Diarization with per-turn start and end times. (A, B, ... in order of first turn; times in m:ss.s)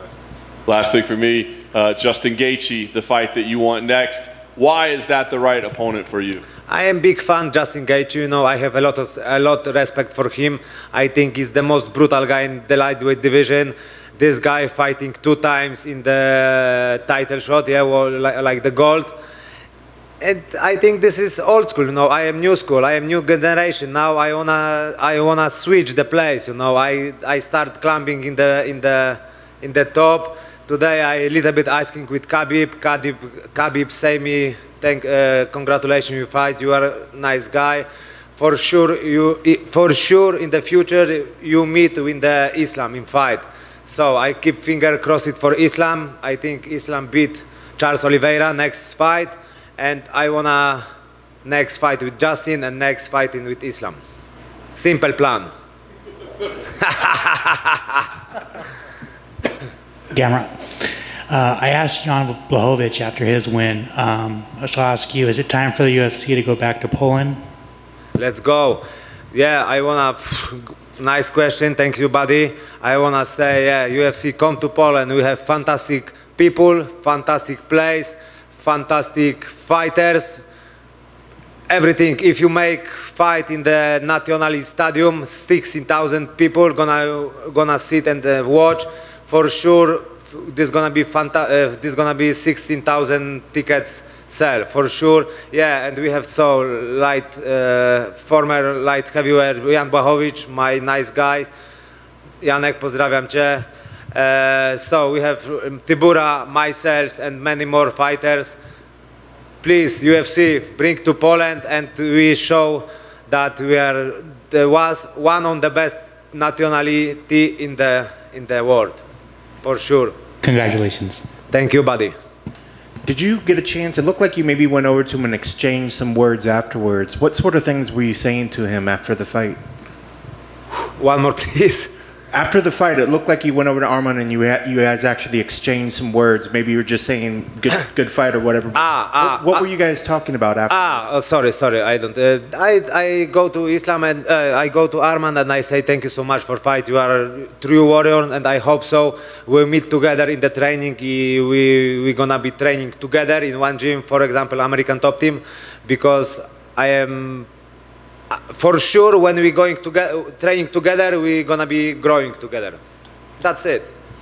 0:00.7-0:06.4 A
0:06.7-0:19.2 B
0:20.2-0:50.8 B
0:51.4-0:54.0 B
0:54.7-0:55.5 B
0:56.8-0:58.0 B
1:00.1-1:07.4 C
1:08.2-1:20.4 B
1:21.7-1:41.5 B
1:42.4-1:48.6 B
1:49.6-1:59.0 B
1:59.6-2:00.2 B
2:00.4-2:01.2 C
2:01.5-2:02.1 B
2:03.1-2:09.6 D
2:11.0-2:11.9 B
2:12.3-2:21.1 D
2:18.8-2:19.7 B
2:20.7-2:37.5 B
2:38.3-2:42.8 B
2:43.4-2:43.9 B